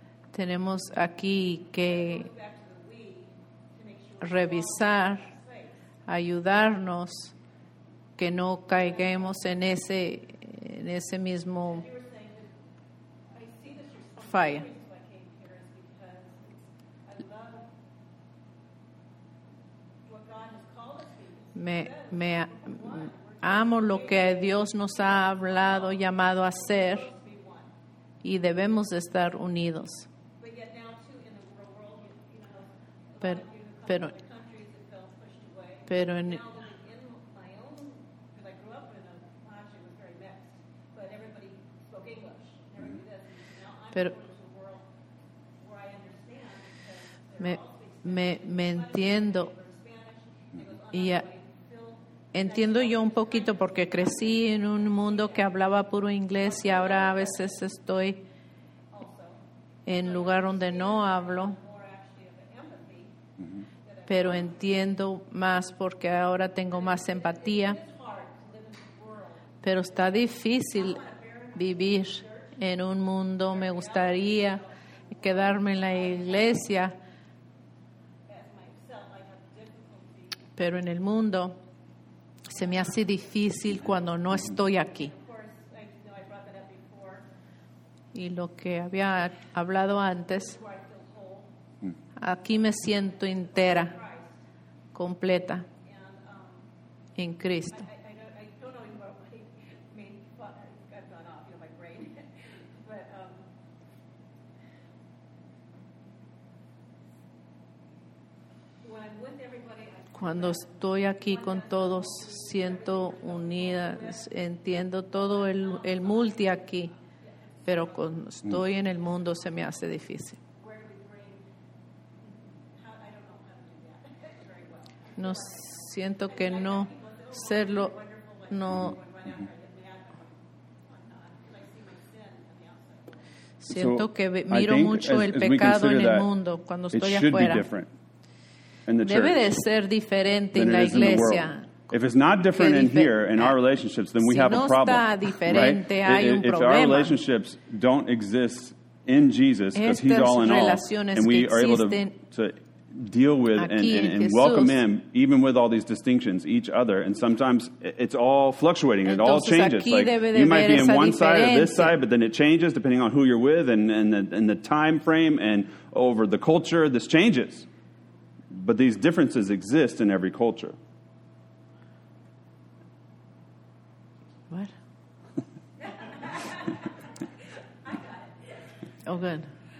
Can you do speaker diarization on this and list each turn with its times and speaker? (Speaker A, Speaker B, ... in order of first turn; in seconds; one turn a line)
Speaker A: 0.3-2.3
Speaker B: 1.8-5.8
Speaker A: 4.2-5.3
Speaker A: 6.1-7.3
Speaker A: 8.2-11.8
Speaker B: 8.8-9.4
Speaker B: 11.6-12.5
Speaker B: 13.3-17.7
Speaker A: 14.2-14.7
Speaker B: 20.0-27.7
Speaker A: 21.5-27.1
Speaker A: 28.2-30.1
Speaker B: 30.4-44.9
Speaker A: 33.2-34.1
Speaker A: 35.9-36.4
Speaker B: 45.6-55.8
Speaker A: 47.4-49.5
Speaker A: 50.9-51.2
Speaker A: 52.3-58.2
Speaker B: 56.4-57.6
Speaker B: 58.9-63.1
Speaker A: 59.9-61.6
Speaker B: 63.8-64.6
Speaker A: 64.1-67.8
Speaker B: 66.7-69.6
Speaker A: 69.6-71.0
Speaker B: 70.7-72.6
Speaker A: 71.5-76.9
Speaker B: 73.5-76.7
Speaker B: 78.3-80.5
Speaker A: 80.5-81.6
Speaker A: 82.5-85.1
Speaker B: 84.9-87.2
Speaker A: 88.1-90.6
Speaker B: 90.3-91.5
Speaker A: 92.2-93.9
Speaker B: 93.3-94.4
Speaker A: 94.9-95.7
Speaker B: 95.8-96.6
Speaker A: 97.2-97.8
Speaker B: 97.7-103.5
Speaker B: 108.8-114.3
Speaker A: 110.2-116.9
Speaker B: 115.2-118.0
Speaker A: 117.7-120.4
Speaker B: 120.5-121.5
Speaker B: 122.2-133.2
Speaker A: 125.2-127.9
Speaker A: 128.5-128.9
Speaker A: 133.6-137.7
Speaker C: 133.7-136.3
Speaker C: 136.9-137.9
Speaker C: 138.9-139.6
Speaker A: 139.0-141.7
Speaker C: 140.5-167.7
Speaker A: 142.6-143.6
Speaker A: 144.2-147.2
Speaker A: 149.7-152.2
Speaker A: 153.6-154.8
Speaker A: 159.0-161.9
Speaker C: 168.5-170.8
Speaker B: 175.8-176.9
Speaker B: 177.8-178.6
Speaker A: 179.1-179.5